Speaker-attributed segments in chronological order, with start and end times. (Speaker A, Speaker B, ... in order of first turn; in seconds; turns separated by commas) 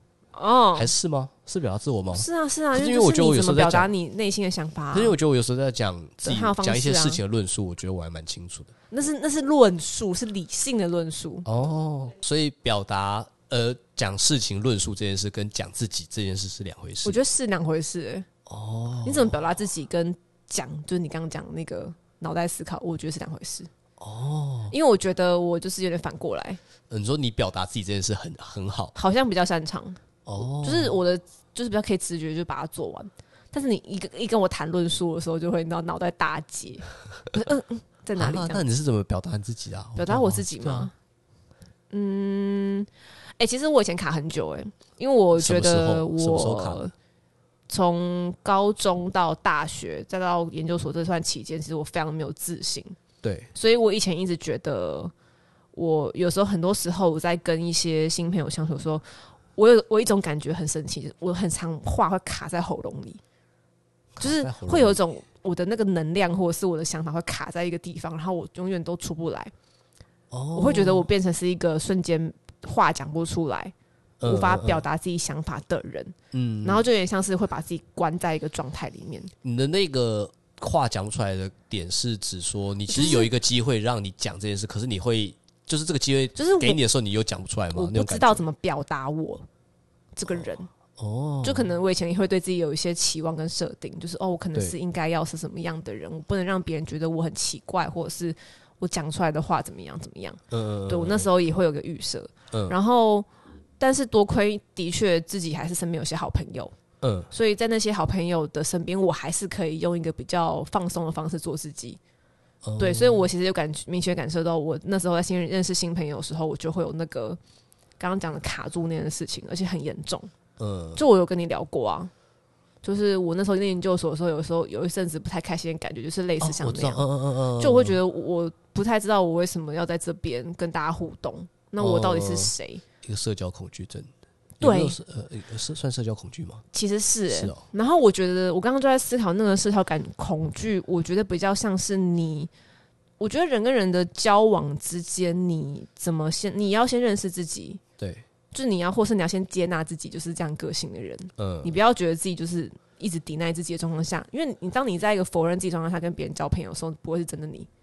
Speaker A: 0.3-0.9, Speaker B: 0.8-3.9, Speaker A: 2.1-5.2, Speaker B: 4.9-8.7, Speaker A: 6.2-7.2, Speaker A: 8.9-11.4, Speaker B: 11.4-17.2, Speaker A: 17.0-18.3, Speaker B: 18.4-19.4, Speaker A: 19.0-23.7, Speaker B: 24.0-24.7, Speaker A: 24.7-26.6, Speaker B: 26.9-28.9, Speaker A: 28.9-30.0, Speaker B: 30.2-31.0, Speaker A: 30.6-38.6, Speaker B: 38.1-40.9, Speaker A: 40.0-40.9, Speaker A: 41.9-46.9, Speaker B: 45.3-46.8, Speaker A: 47.7-53.0, Speaker B: 53.2-53.5, Speaker A: 53.5-55.1, Speaker A: 55.7-59.0, Speaker A: 59.5-63.2, Speaker B: 64.1-65.0, Speaker A: 64.2-69.5, Speaker B: 70.3-71.1, Speaker A: 70.5-73.7, Speaker B: 74.2-74.8, Speaker A: 74.2-79.3, Speaker B: 76.3-76.8, Speaker B: 79.4-88.5, Speaker A: 82.9-83.3, Speaker A: 86.3-86.8, Speaker A: 87.7-89.5, Speaker A: 90.2-90.7, Speaker B: 91.0-91.7, Speaker A: 91.4-103.3, Speaker B: 100.5-101.3, Speaker A: 103.8-106.7, Speaker B: 107.0-107.3, Speaker A: 107.3-112.0, Speaker B: 112.6-113.3, Speaker A: 112.8-117.4, Speaker A: 118.0-120.3, Speaker B: 120.6-121.0, Speaker A: 121.0-122.1, Speaker A: 122.8-127.0, Speaker B: 126.4-128.0, Speaker A: 127.6-132.8, Speaker B: 131.8-136.6, Speaker A: 134.6-134.9, Speaker A: 136.7-142.5, Speaker B: 137.3-137.6, Speaker A: 143.2-147.8, Speaker B: 148.0-148.2, Speaker A: 148.5-157.7, Speaker B: 151.4-151.8